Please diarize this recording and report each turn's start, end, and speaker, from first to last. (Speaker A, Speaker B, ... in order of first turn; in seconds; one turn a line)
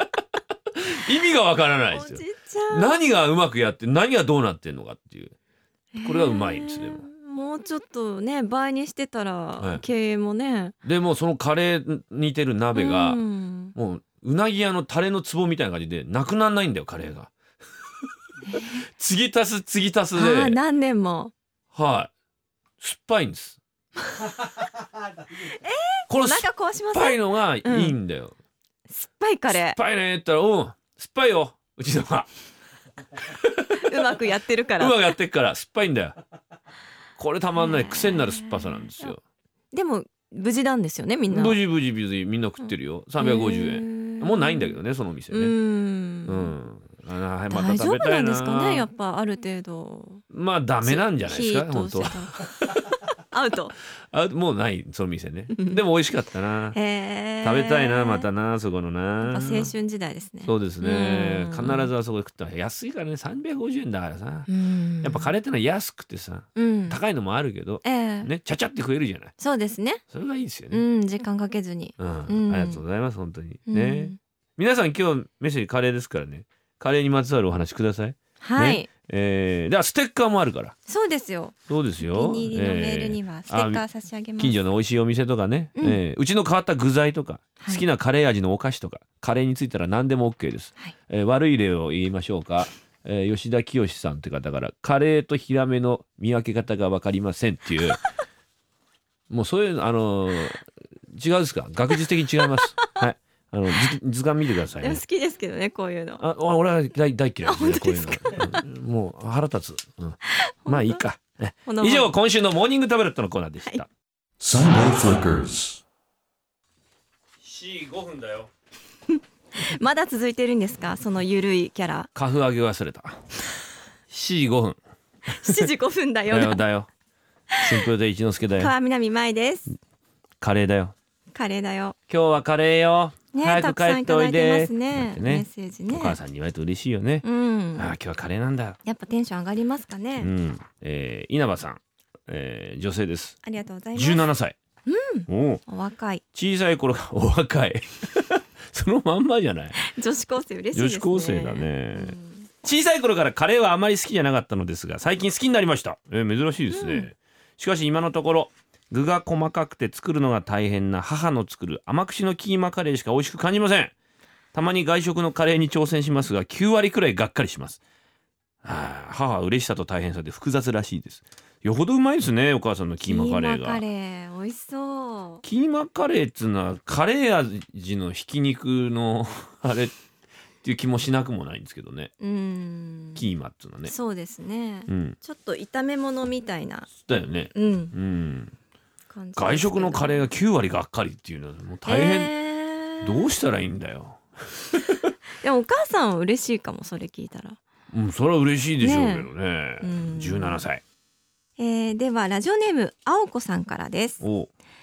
Speaker A: 0.8-5.3
Speaker B: 1.9-3.0
Speaker B: 5.9-10.8
Speaker A: 6.0-7.0
Speaker A: 10.8-13.2
Speaker B: 12.7-13.8
Speaker A: 13.8-17.3
Speaker B: 18.5-18.8
Speaker A: 18.6-20.6
Speaker B: 20.1-21.3
Speaker A: 21.7-22.1
Speaker A: 22.8-23.6
Speaker B: 25.3-27.9
Speaker A: 26.1-28.4
Speaker B: 28.9-29.8
Speaker A: 29.5-32.3
Speaker A: 33.2-33.8
Speaker B: 33.7-35.1
Speaker A: 34.8-36.2
Speaker A: 37.2-39.2
Speaker B: 37.6-39.1
Speaker B: 39.7-41.6
Speaker A: 41.3-45.5
Speaker B: 43.2-44.8
Speaker B: 45.3-46.5
Speaker A: 46.3-48.9
Speaker B: 47.5-50.2
Speaker A: 50.3-52.9
Speaker B: 50.8-52.5
Speaker B: 53.3-53.8
Speaker A: 54.1-56.8
Speaker B: 55.5-55.8
Speaker B: 56.7-58.3
Speaker A: 57.4-59.7
Speaker B: 59.2-61.9
Speaker A: 60.4-64.5
Speaker B: 64.5-65.3
Speaker A: 65.0-69.3
Speaker B: 66.6-67.0
Speaker B: 67.8-68.3
Speaker B: 69.4-70.0
Speaker A: 70.1-70.8
Speaker B: 70.7-72.8
Speaker A: 72.0-80.8
Speaker B: 73.7-74.2
Speaker B: 78.4-78.9
Speaker B: 80.9-84.6
Speaker A: 81.7-83.8
Speaker A: 84.4-98.0
Speaker A: 99.3-105.0
Speaker B: 102.5-103.0
Speaker B: 104.8-106.2
Speaker A: 106.2-113.9
Speaker B: 107.5-108.6
Speaker B: 110.4-111.0
Speaker B: 111.7-112.1
Speaker A: 114.4-115.8
Speaker A: 117.4-118.5
Speaker B: 119.6-122.1
Speaker A: 122.2-123.2
Speaker A: 124.1-124.8
Speaker B: 125.3-126.6
Speaker A: 126.3-126.9
Speaker B: 127.5-127.8
Speaker A: 127.6-128.7
Speaker B: 128.6-129.7
Speaker A: 130.4-130.9
Speaker B: 131.3-132.0
Speaker A: 132.1-138.8
Speaker B: 133.3-136.2
Speaker B: 137.2-137.9
Speaker B: 138.9-140.3
Speaker A: 140.2-143.4
Speaker B: 143.4-144.3
Speaker A: 143.9-144.6
Speaker B: 144.9-146.2
Speaker A: 145.3-145.6
Speaker A: 146.3-149.8
Speaker B: 149.8-152.5
Speaker A: 150.8-163.9
Speaker B: 156.7-157.1
Speaker A: 164.5-167.8
Speaker A: 168.6-173.8
Speaker B: 173.1-175.4
Speaker A: 175.4-179.9
Speaker A: 180.6-182.1
Speaker B: 182.2-183.2
Speaker A: 183.2-183.9
Speaker B: 183.9-187.9
Speaker A: 184.9-185.2
Speaker A: 187.0-188.5
Speaker B: 189.1-190.3
Speaker A: 189.4-192.3
Speaker B: 191.9-193.3
Speaker A: 193.0-194.2
Speaker B: 195.4-197.6
Speaker A: 197.9-200.8
Speaker B: 198.8-199.3
Speaker B: 199.8-200.6
Speaker B: 201.6-204.2
Speaker A: 204.2-204.5